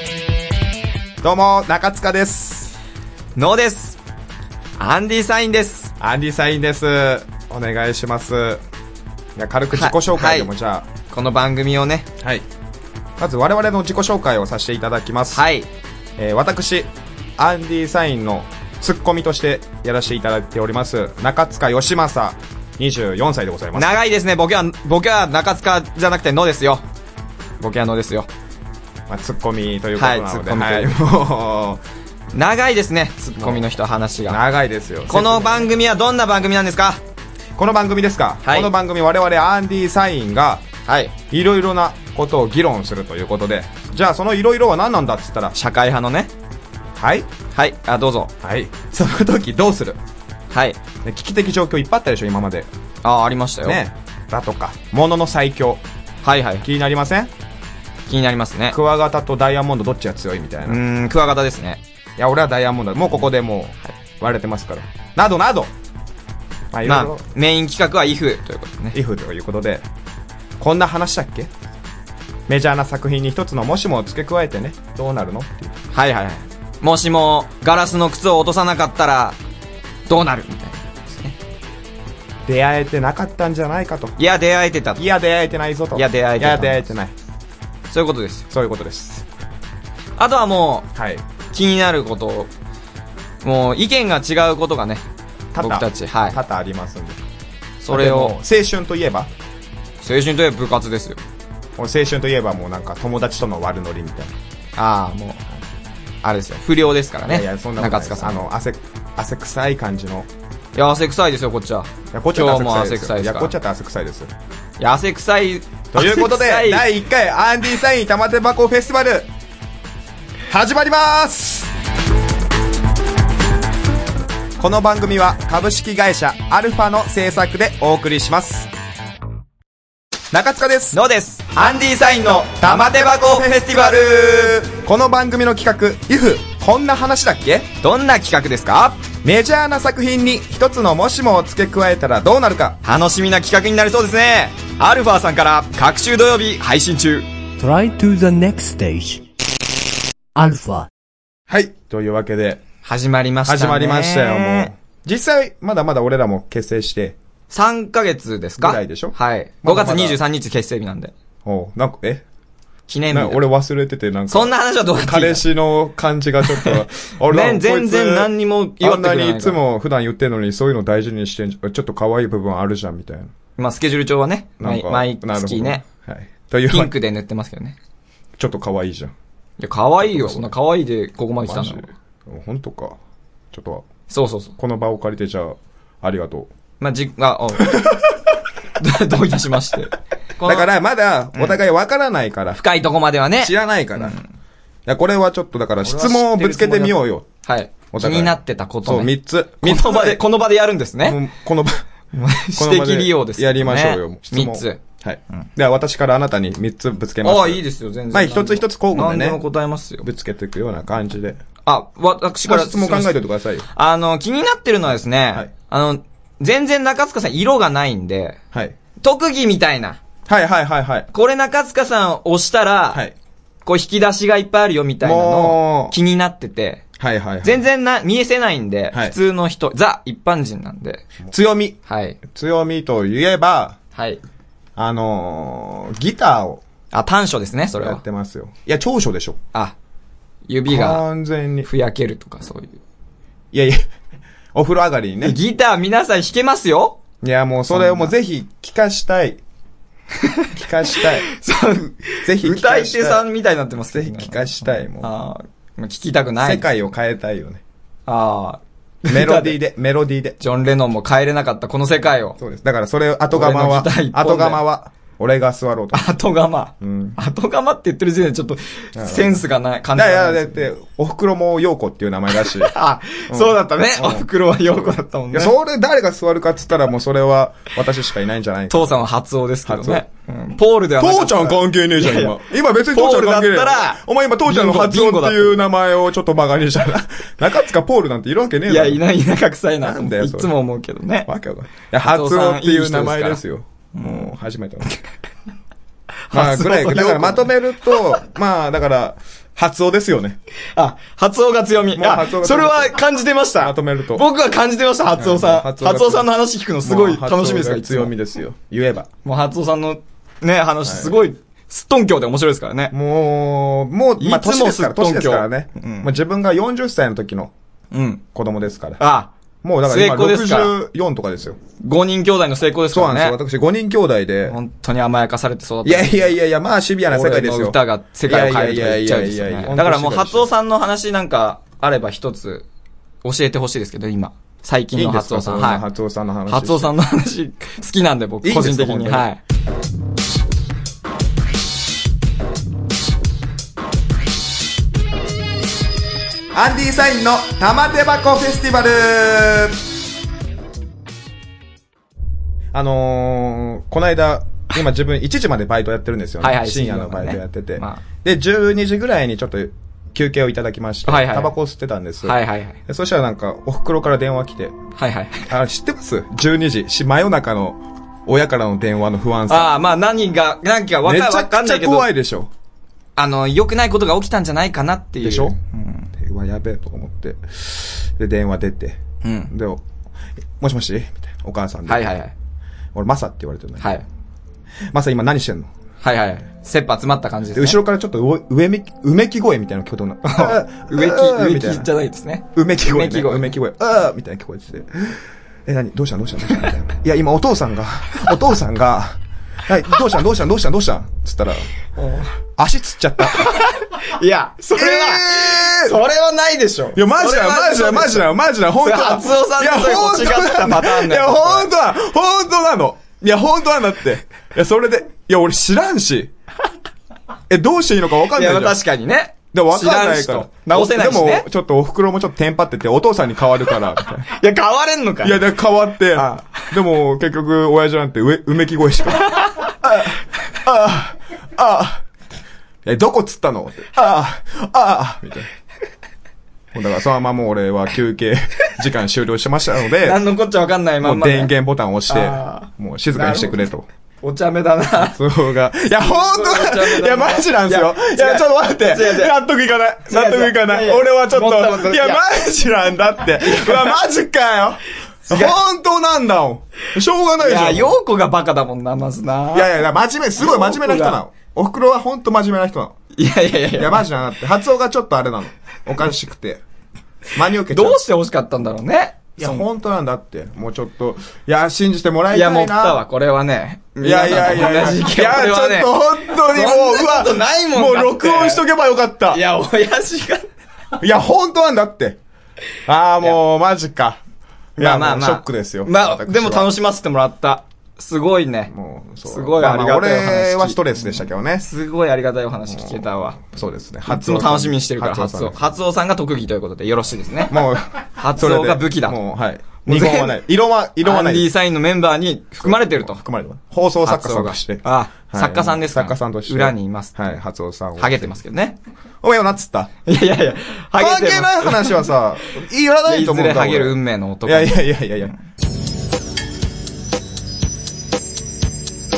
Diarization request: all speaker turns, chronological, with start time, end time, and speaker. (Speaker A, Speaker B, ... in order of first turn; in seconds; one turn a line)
Speaker A: 1.2-2.7
Speaker B: 3.4-4.0
Speaker B: 4.8-5.9
Speaker A: 6.0-8.6
Speaker A: 9.4-10.9
Speaker B: 9.7-10.5
Speaker B: 11.1-12.1
Speaker A: 12.2-12.5
Speaker A: 13.2-15.4
Speaker B: 15.3-15.7
Speaker A: 16.2-24.0
Speaker B: 23.7-26.8
Speaker B: 27.6-28.3
Speaker A: 29.1-31.8
Speaker B: 29.9-30.9
Speaker B: 32.3-34.4
Speaker A: 33.4-33.6
Speaker A: 34.3-35.7
Speaker B: 35.1-37.0
Speaker A: 37.6-40.6
Speaker B: 38.4-38.7
Speaker B: 40.9-41.1
Speaker A: 41.3-45.5
Speaker B: 45.5-46.3
Speaker A: 47.0-47.3
Speaker B: 47.5-48.3
Speaker A: 48.4-50.0
Speaker B: 50.5-50.8
Speaker A: 51.0-52.7
Speaker B: 53.0-53.8
Speaker A: 53.6-55.8
Speaker B: 56.2-56.6
Speaker A: 56.6-57.3
Speaker B: 58.1-58.8
Speaker A: 58.7-60.8
Speaker B: 60.6-61.8
Speaker A: 62.2-65.7
Speaker A: 66.7-67.2
Speaker B: 66.8-69.0
Speaker A: 68.9-69.8
Speaker A: 70.6-71.5
Speaker A: 72.5-75.8
Speaker B: 75.9-79.4
Speaker B: 80.1-81.3
Speaker A: 82.4-84.2
Speaker B: 84.2-85.0
Speaker A: 85.0-87.1
Speaker B: 85.9-86.8
Speaker B: 87.9-88.4
Speaker A: 88.5-89.2
Speaker B: 90.2-90.9
Speaker A: 90.9-91.2
Speaker B: 91.5-92.5
Speaker B: 93.4-95.0
Speaker A: 95.5-97.2
Speaker B: 95.6-96.4
Speaker B: 97.8-98.3
Speaker A: 97.9-99.3
Speaker B: 100.0-101.2
Speaker A: 101.8-104.3
Speaker B: 104.8-105.4
Speaker B: 106.2-108.5
Speaker A: 107.3-110.3
Speaker B: 110.8-113.5
Speaker A: 112.1-114.3
Speaker B: 114.8-116.9
Speaker A: 115.9-119.3
Speaker A: 120.5-121.7
Speaker A: 124.6-128.7
Speaker A: 130.3-131.0
Speaker B: 130.9-134.6
Speaker A: 132.4-137.7
Speaker B: 137.8-139.0
Speaker A: 139.2-142.8
Speaker B: 142.8-147.2
Speaker C: 147.6-149.2
Speaker C: 150.3-150.9
Speaker A: 151.5-152.6
Speaker B: 152.8-154.7
Speaker A: 153.4-157.2
Speaker B: 157.5-161.1
Speaker A: 158.6-160.2
Speaker A: 161.4-162.2
Speaker B: 162.9-163.4
Speaker A: 163.1-173.3
Speaker B: 164.3-165.4
Speaker B: 166.4-169.6
Speaker B: 173.6-175.8
Speaker A: 174.6-176.9
Speaker B: 176.7-177.8
Speaker A: 178.4-179.1
Speaker B: 179.6-181.9
Speaker A: 180.0-180.5
Speaker A: 181.4-183.0
Speaker A: 183.5-183.9
Speaker B: 184.1-184.5
Speaker A: 184.6-186.5
Speaker B: 186.8-187.8
Speaker A: 187.7-188.1
Speaker B: 188.8-190.7
Speaker A: 190.4-192.6
Speaker B: 191.3-191.6
Speaker B: 192.6-194.2
Speaker A: 193.4-194.2
Speaker A: 194.9-197.3
Speaker B: 195.8-201.2
Speaker A: 197.9-200.2
Speaker A: 201.0-201.8
Speaker B: 202.1-204.8
Speaker A: 202.6-209.4
Speaker B: 207.2-210.1
Speaker A: 210.0-211.4
Speaker B: 211.7-213.2
Speaker A: 212.4-213.7
Speaker B: 213.7-218.4
Speaker B: 219.0-220.0
Speaker A: 220.3-221.1
Speaker B: 221.1-223.0
Speaker B: 223.7-226.8
Speaker A: 225.0-226.0
Speaker A: 227.0-227.7
Speaker B: 227.4-231.1
Speaker A: 231.3-233.8
Speaker B: 231.9-232.2
Speaker B: 233.9-234.2
Speaker A: 234.8-236.6
Speaker B: 236.9-238.0
Speaker A: 237.8-239.4
Speaker B: 240.5-241.0
Speaker A: 240.7-241.7
Speaker B: 241.6-242.8
Speaker A: 243.5-243.8
Speaker A: 244.5-245.4
Speaker B: 245.2-247.0
Speaker A: 247.2-249.4
Speaker B: 247.7-248.2
Speaker A: 250.5-251.3
Speaker B: 251.3-256.6
Speaker A: 252.2-253.2
Speaker A: 253.9-255.1
Speaker A: 256.4-257.6
Speaker B: 258.1-259.6
Speaker A: 259.1-260.4
Speaker B: 260.4-262.4
Speaker A: 262.4-266.1
Speaker B: 263.3-264.6
Speaker B: 265.9-270.6
Speaker A: 266.8-267.2
Speaker A: 268.9-269.4
Speaker A: 269.9-272.7
Speaker B: 272.4-275.5
Speaker A: 273.3-274.2
Speaker A: 275.3-279.1
Speaker B: 278.7-282.4
Speaker A: 279.6-280.0
Speaker A: 281.0-289.0
Speaker B: 282.9-285.6
Speaker B: 288.7-291.3
Speaker A: 289.8-290.6
Speaker A: 291.2-294.9
Speaker B: 292.1-293.4
Speaker B: 293.9-294.3
Speaker B: 296.3-297.5
Speaker A: 296.3-300.4
Speaker B: 300.8-308.1
Speaker A: 301.9-303.0
Speaker A: 303.6-304.2
Speaker A: 305.1-309.1
Speaker B: 309.2-312.9
Speaker A: 310.8-311.2
Speaker A: 312.9-317.5
Speaker B: 314.2-316.1
Speaker B: 317.9-318.2
Speaker A: 318.3-319.0
Speaker B: 319.0-319.3
Speaker A: 319.6-321.6
Speaker B: 319.9-320.8
Speaker B: 321.8-323.4
Speaker A: 322.9-324.6
Speaker B: 324.5-326.3
Speaker A: 325.8-330.5
Speaker B: 327.1-332.6
Speaker B: 333.2-335.8
Speaker A: 334.9-336.9
Speaker B: 336.5-339.4
Speaker A: 338.4-339.3
Speaker A: 346.5-349.8
Speaker A: 352.7-364.8
Speaker B: 356.4-358.0
Speaker B: 361.0-361.5
Speaker B: 362.2-362.8
Speaker B: 365.0-365.4
Speaker A: 365.5-369.8
Speaker B: 369.5-372.1
Speaker A: 371.0-372.5
Speaker B: 373.1-376.1
Speaker A: 375.2-375.6
Speaker A: 376.1-379.8
Speaker B: 379.2-379.5
Speaker A: 380.6-382.2
Speaker B: 381.9-382.3
Speaker A: 382.9-384.0
Speaker B: 383.8-384.0
Speaker A: 384.9-385.7
Speaker B: 386.0-387.8
Speaker A: 387.5-391.9
Speaker B: 390.2-393.6
Speaker A: 392.5-401.7
Speaker B: 402.0-402.3
Speaker A: 402.6-403.7
Speaker B: 403.3-408.3
Speaker A: 404.7-406.0
Speaker A: 406.9-416.3
Speaker B: 408.8-411.7
Speaker A: 417.5-418.8
Speaker B: 418.3-421.4
Speaker A: 419.5-424.3
Speaker B: 424.4-425.4
Speaker A: 425.2-432.0
Speaker B: 426.1-426.7
Speaker B: 429.3-429.7
Speaker A: 432.8-435.5
Speaker A: 436.7-440.2
Speaker B: 440.0-441.5
Speaker A: 441.0-443.9
Speaker B: 442.1-443.6
Speaker B: 444.2-445.2
Speaker A: 445.0-458.0
Speaker B: 445.9-449.3
Speaker B: 450.1-452.2
Speaker B: 453.4-453.9
Speaker B: 455.3-455.5
Speaker B: 457.4-459.7
Speaker A: 459.5-462.9
Speaker B: 460.4-461.2
Speaker B: 463.1-464.0
Speaker A: 463.7-466.6
Speaker A: 467.3-468.0
Speaker B: 467.7-469.6
Speaker A: 469.4-473.0
Speaker B: 472.3-478.6
Speaker A: 474.0-479.4
Speaker B: 479.3-480.5
Speaker A: 481.0-482.2
Speaker A: 482.9-484.2
Speaker A: 484.8-486.7
Speaker B: 484.8-488.7
Speaker A: 488.7-491.6
Speaker B: 489.2-493.4
Speaker A: 492.7-495.6
Speaker B: 494.1-497.6
Speaker A: 497.5-501.5
Speaker B: 498.2-499.2
Speaker B: 499.8-500.4
Speaker B: 501.0-503.2
Speaker A: 502.6-508.4
Speaker B: 504.0-507.1
Speaker B: 508.0-508.8
Speaker A: 509.2-509.9
Speaker B: 510.1-512.1
Speaker A: 511.0-515.4
Speaker B: 513.1-514.9